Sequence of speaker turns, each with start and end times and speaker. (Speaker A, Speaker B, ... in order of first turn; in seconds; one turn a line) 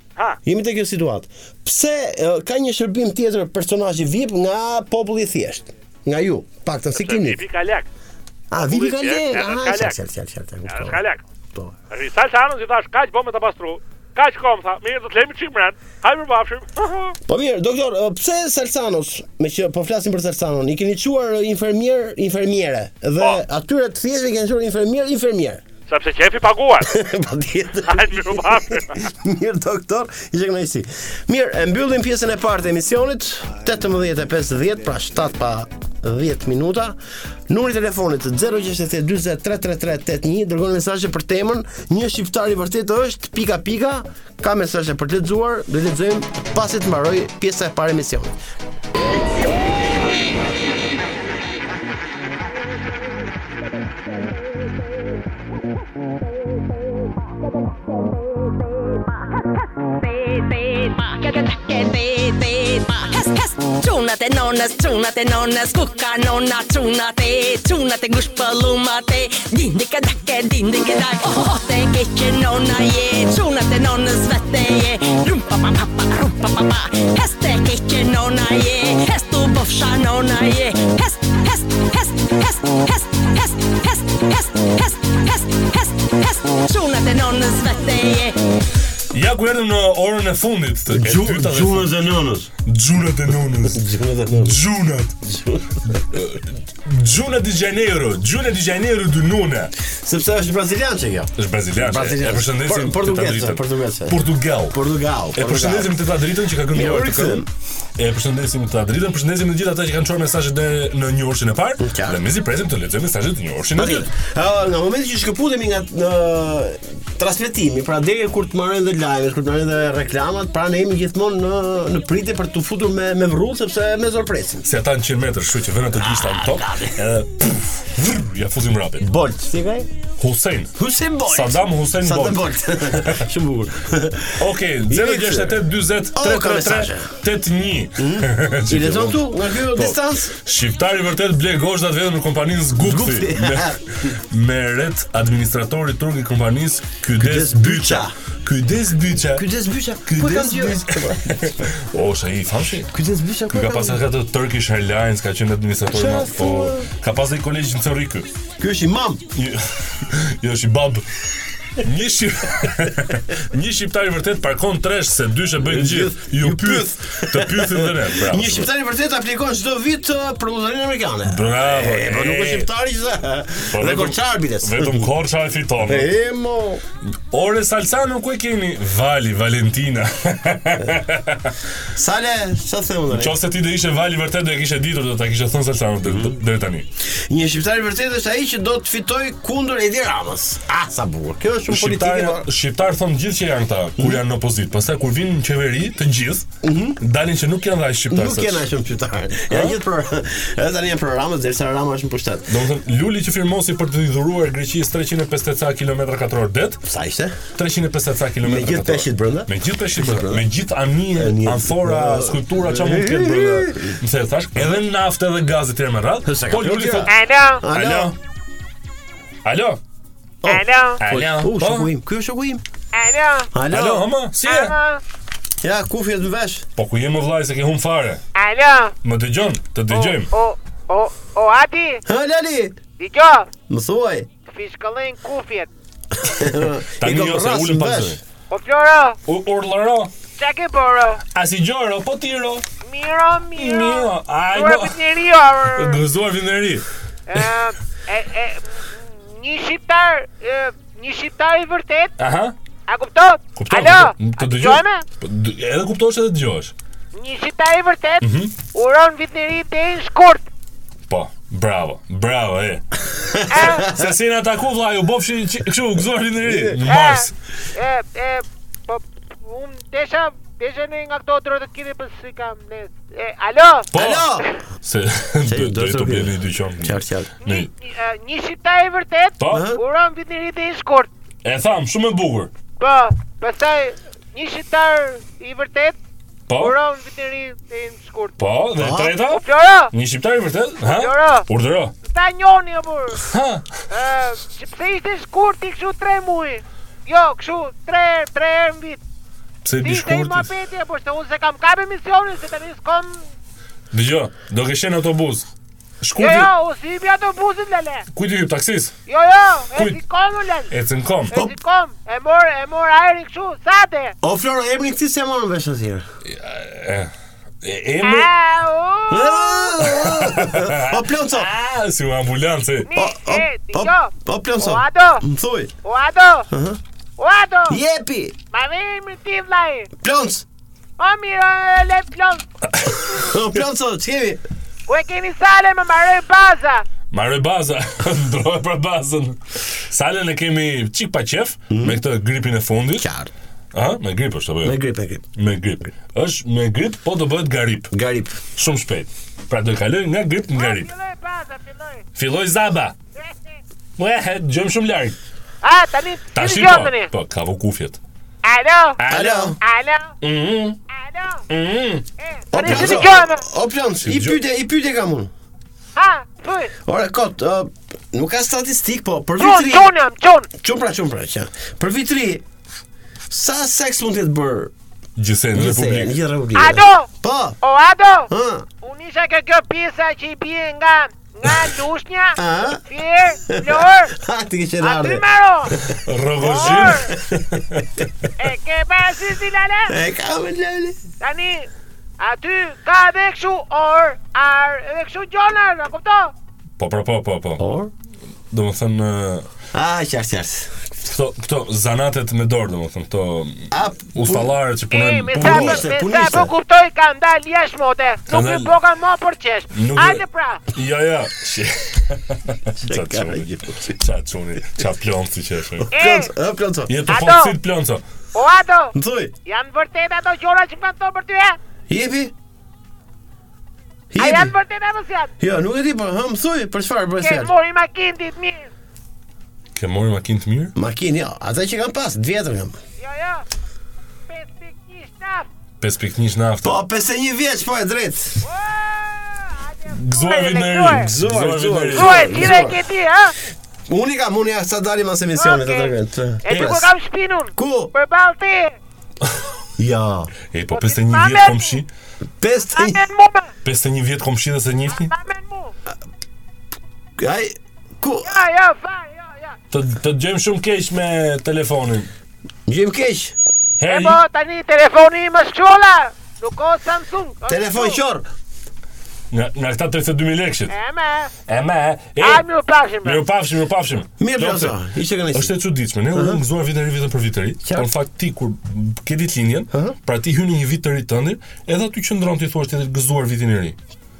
Speaker A: 0.4-7.4
Speaker B: 6.9-7.9
Speaker A: 8.5-11.0
Speaker B: 8.5-10.0
Speaker B: 10.7-11.2
Speaker B: 11.9-17.2
Speaker A: 17.3-25.6
Speaker B: 25.9-26.9
Speaker A: 26.8-37.0
Speaker B: 27.9-29.0
Speaker A: 37.5-48.3
Speaker C: 60.0-88.4
Speaker D: 89.1-92.0
Speaker A: 90.9-92.5
Speaker D: 92.6-95.2
Speaker A: 93.6-94.6
Speaker A: 95.2-96.0
Speaker D: 95.9-99.7
Speaker A: 99.8-106.0
Speaker D: 101.4-104.8
Speaker D: 105.3-114.1
Speaker A: 106.7-107.5
Speaker A: 111.8-112.2
Speaker A: 113.7-124.7
Speaker D: 124.6-129.1
Speaker A: 126.0-127.0
Speaker A: 129.0-129.9
Speaker D: 130.2-133.2
Speaker A: 130.8-137.1
Speaker D: 134.4-149.5
Speaker A: 138.0-140.3
Speaker A: 142.8-144.1
Speaker A: 147.2-148.1
Speaker A: 149.3-151.5
Speaker D: 150.0-152.9
Speaker A: 152.9-154.0
Speaker D: 153.5-158.3
Speaker A: 155.9-156.9
Speaker A: 158.6-159.2
Speaker D: 159.3-161.1
Speaker D: 161.7-168.7
Speaker A: 165.6-175.1
Speaker D: 171.2-172.7
Speaker D: 173.7-176.1
Speaker A: 175.8-176.8
Speaker D: 177.0-181.6
Speaker A: 181.9-183.4
Speaker D: 183.1-186.9
Speaker A: 186.0-186.4
Speaker A: 187.1-192.5
Speaker D: 191.7-196.5
Speaker A: 196.6-197.0
Speaker D: 197.0-198.7
Speaker A: 198.1-202.5
Speaker D: 199.5-199.8
Speaker D: 202.5-206.8
Speaker A: 206.8-207.4
Speaker D: 207.5-217.1
Speaker A: 208.4-210.4
Speaker A: 211.1-214.0
Speaker A: 216.2-218.1
Speaker E: 217.1-217.6
Speaker D: 217.7-218.2
Speaker D: 219.4-219.8
Speaker A: 220.4-222.6
Speaker E: 220.4-221.0
Speaker D: 221.0-221.9
Speaker E: 222.9-223.5
Speaker A: 223.5-224.1
Speaker D: 223.7-224.8
Speaker E: 224.4-225.0
Speaker A: 225.6-226.7
Speaker D: 226.8-228.2
Speaker E: 228.3-228.9
Speaker D: 229.0-230.3
Speaker E: 229.9-232.0
Speaker A: 232.1-232.8
Speaker E: 233.0-233.5
Speaker A: 233.7-234.3
Speaker E: 234.4-235.7
Speaker A: 236.2-238.2
Speaker D: 236.4-238.2
Speaker E: 238.5-239.2
Speaker D: 239.2-240.1
Speaker E: 240.3-241.2
Speaker D: 241.3-242.6
Speaker E: 242.8-246.0
Speaker D: 243.6-245.0
Speaker D: 245.6-247.5
Speaker E: 247.3-252.1
Speaker D: 252.2-252.6
Speaker E: 252.9-255.0
Speaker D: 253.6-256.7
Speaker E: 257.1-260.4
Speaker D: 258.2-258.5
Speaker D: 261.1-262.9
Speaker A: 263.3-264.1
Speaker E: 263.5-263.9
Speaker D: 263.6-267.3
Speaker A: 266.4-266.8
Speaker E: 266.9-273.9
Speaker D: 273.9-277.7
Speaker A: 273.9-274.5
Speaker A: 275.4-277.3
Speaker E: 277.4-281.1
Speaker D: 279.4-279.7
Speaker A: 279.5-279.8
Speaker D: 281.4-282.5
Speaker E: 282.8-286.0
Speaker D: 286.5-286.8
Speaker E: 286.5-288.3
Speaker D: 288.4-291.9
Speaker A: 288.8-289.1
Speaker E: 289.2-289.9
Speaker E: 290.8-291.5
Speaker E: 292.0-293.2
Speaker D: 293.3-293.8
Speaker E: 293.9-299.0
Speaker D: 299.6-300.5
Speaker E: 299.8-303.2
Speaker D: 303.9-305.5
Speaker D: 306.0-306.5
Speaker E: 306.2-308.1
Speaker D: 308.1-308.9
Speaker E: 309.1-310.7
Speaker D: 309.7-310.0
Speaker D: 310.7-311.3
Speaker E: 311.3-314.1
Speaker A: 314.2-316.0
Speaker D: 316.2-317.1
Speaker D: 317.6-318.3
Speaker E: 318.0-319.8
Speaker A: 319.1-321.5
Speaker D: 319.8-322.9
Speaker E: 322.8-325.2
Speaker A: 322.9-325.7
Speaker E: 325.8-326.5
Speaker A: 326.5-326.8
Speaker E: 327.2-327.8
Speaker A: 327.7-328.3
Speaker E: 328.5-329.9
Speaker A: 330.0-330.4
Speaker E: 331.0-332.4
Speaker D: 332.7-333.0
Speaker A: 333.0-334.4
Speaker E: 334.9-336.8
Speaker D: 337.1-343.1
Speaker A: 341.7-342.0
Speaker A: 343.0-343.3
Speaker D: 343.7-344.8
Speaker A: 344.6-345.2
Speaker D: 345.3-347.9
Speaker A: 347.9-348.4
Speaker D: 348.6-350.9
Speaker E: 350.5-352.0
Speaker D: 352.1-352.9
Speaker E: 353.1-353.6
Speaker D: 354.0-355.2
Speaker E: 355.6-357.1
Speaker D: 356.3-358.0
Speaker E: 358.4-359.0
Speaker D: 359.0-359.6
Speaker A: 359.1-359.6
Speaker E: 359.6-360.1
Speaker D: 360.2-360.8
Speaker E: 360.9-361.4
Speaker D: 361.5-362.0
Speaker E: 362.2-363.4
Speaker A: 362.5-365.3
Speaker D: 362.6-363.1
Speaker D: 364.0-364.4
Speaker E: 365.9-366.7
Speaker A: 366.8-369.9
Speaker E: 369.4-370.5
Speaker A: 370.6-372.4
Speaker A: 373.3-374.7
Speaker D: 375.1-376.1
Speaker A: 375.5-377.6
Speaker E: 376.5-377.1
Speaker E: 377.6-378.3
Speaker A: 378.3-378.6
Speaker E: 378.8-384.1
Speaker A: 382.3-382.8
Speaker A: 383.4-387.6
Speaker E: 384.8-385.7
Speaker D: 385.9-388.0
Speaker E: 386.4-387.1
Speaker E: 388.4-389.9
Speaker A: 389.9-391.0
Speaker E: 391.2-396.3
Speaker D: 396.8-397.6
Speaker A: 397.6-397.9
Speaker D: 398.5-399.5
Speaker A: 399.7-400.8
Speaker D: 401.0-405.9
Speaker A: 403.7-404.5
Speaker E: 404.9-410.6
Speaker A: 405.4-406.5
Speaker D: 408.3-408.7
Speaker D: 409.7-415.9
Speaker A: 412.8-413.9
Speaker A: 415.9-416.9
Speaker E: 415.9-416.3
Speaker D: 416.9-418.0
Speaker E: 417.1-417.6
Speaker E: 418.3-418.9
Speaker A: 418.9-419.3
Speaker E: 419.4-421.6
Speaker A: 421.9-422.3
Speaker A: 424.1-424.5
Speaker E: 424.1-425.3
Speaker A: 425.4-427.5
Speaker E: 427.2-428.7
Speaker D: 429.7-430.7
Speaker A: 430.8-432.8
Speaker E: 433.0-433.4
Speaker E: 434.3-435.5
Speaker D: 435.8-436.8
Speaker A: 436.6-438.4
Speaker E: 438.4-441.1
Speaker D: 439.9-442.5
Speaker A: 440.9-442.8
Speaker E: 441.9-443.3
Speaker A: 443.9-446.9
Speaker E: 445.4-445.9
Speaker E: 446.4-448.8
Speaker D: 446.5-446.8
Speaker A: 447.5-447.9
Speaker A: 449.8-450.3
Speaker D: 450.5-451.9
Speaker E: 450.7-451.8
Speaker A: 452.4-453.1
Speaker E: 452.7-453.5
Speaker D: 453.6-455.1
Speaker E: 454.9-455.7
Speaker A: 457.2-458.4
Speaker E: 458.2-459.6
Speaker D: 459.7-462.1
Speaker A: 462.7-463.3
Speaker D: 463.8-464.2
Speaker E: 463.8-468.0
Speaker A: 467.5-468.2
Speaker D: 469.3-470.7
Speaker E: 470.7-471.3
Speaker D: 471.5-472.4
Speaker E: 472.2-473.2
Speaker D: 473.0-474.8
Speaker A: 474.2-475.6
Speaker D: 475.3-483.8
Speaker A: 476.1-476.4
Speaker A: 477.6-477.9
Speaker A: 479.7-479.9